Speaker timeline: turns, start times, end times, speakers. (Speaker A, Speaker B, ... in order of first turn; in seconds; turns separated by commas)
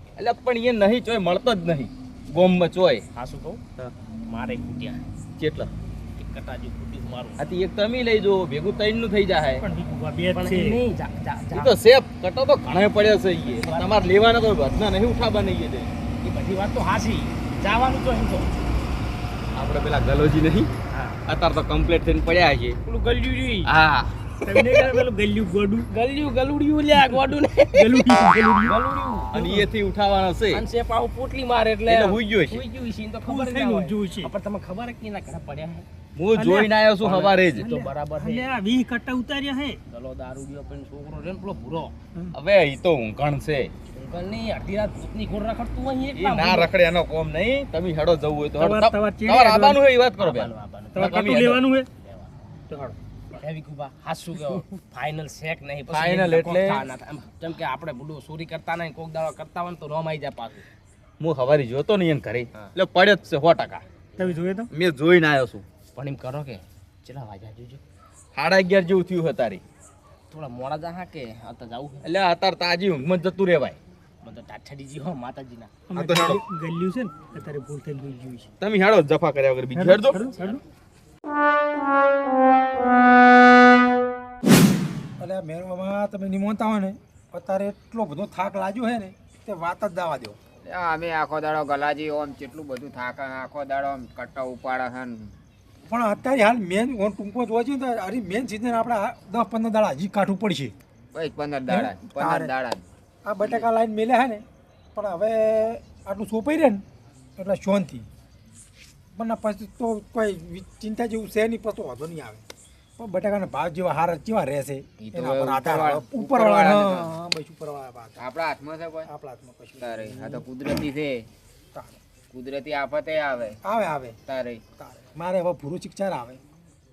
Speaker A: 0.2-3.0, Speaker B: 3.1-3.6, Speaker B: 4.3-5.0, Speaker A: 5.4-5.7, Speaker B: 6.2-7.4, Speaker A: 7.4-9.6, Speaker C: 9.6-10.8, Speaker B: 10.3-11.8, Speaker A: 11.5-15.9, Speaker B: 13.5-14.1, Speaker B: 16.2-18.5, Speaker A: 19.5-20.7, Speaker B: 20.9-21.2, Speaker A: 21.3-22.8, Speaker B: 22.8-23.7, Speaker A: 23.7-24.1, Speaker C: 24.4-25.9, Speaker B: 24.5-25.0, Speaker B: 25.9-29.4, Speaker C: 26.9-28.8, Speaker A: 29.3-30.6, Speaker C: 29.4-29.6, Speaker B: 30.5-35.9, Speaker A: 31.9-32.6, Speaker C: 33.2-34.3, Speaker A: 36.1-37.6, Speaker C: 36.3-36.7, Speaker B: 37.0-38.5, Speaker C: 37.6-39.8, Speaker B: 39.9-41.9, Speaker A: 42.3-43.7, Speaker B: 43.9-46.7, Speaker A: 46.1-51.6, Speaker C: 48.6-49.8, Speaker B: 50.2-51.4, Speaker C: 50.9-51.9, Speaker B: 52.0-52.3, Speaker C: 52.7-53.0, Speaker B: 53.4-60.6, Speaker A: 55.9-56.8, Speaker A: 61.2-63.8, Speaker C: 64.2-64.7, Speaker A: 64.7-65.6, Speaker B: 65.9-67.8, Speaker A: 68.3-69.6, Speaker B: 70.3-72.0, Speaker A: 72.0-73.8, Speaker B: 74.2-75.7, Speaker C: 75.9-78.5, Speaker A: 75.9-76.4, Speaker A: 78.6-80.2, Speaker C: 79.7-80.6, Speaker B: 80.2-80.6, Speaker D: 85.2-90.4, Speaker E: 90.6-95.3, Speaker D: 95.9-100.7, Speaker E: 101.1-102.9, Speaker D: 101.7-102.5, Speaker D: 103.2-104.4, Speaker E: 103.4-103.7, Speaker D: 104.9-106.8, Speaker D: 107.4-108.0, Speaker D: 109.2-112.4, Speaker D: 113.0-118.2, Speaker E: 115.0-117.1, Speaker E: 118.2-119.1, Speaker D: 119.0-120.5, Speaker E: 119.8-121.3, Speaker E: 122.3-123.6, Speaker D: 123.6-124.2, Speaker E: 124.2-124.6, Speaker D: 124.8-126.4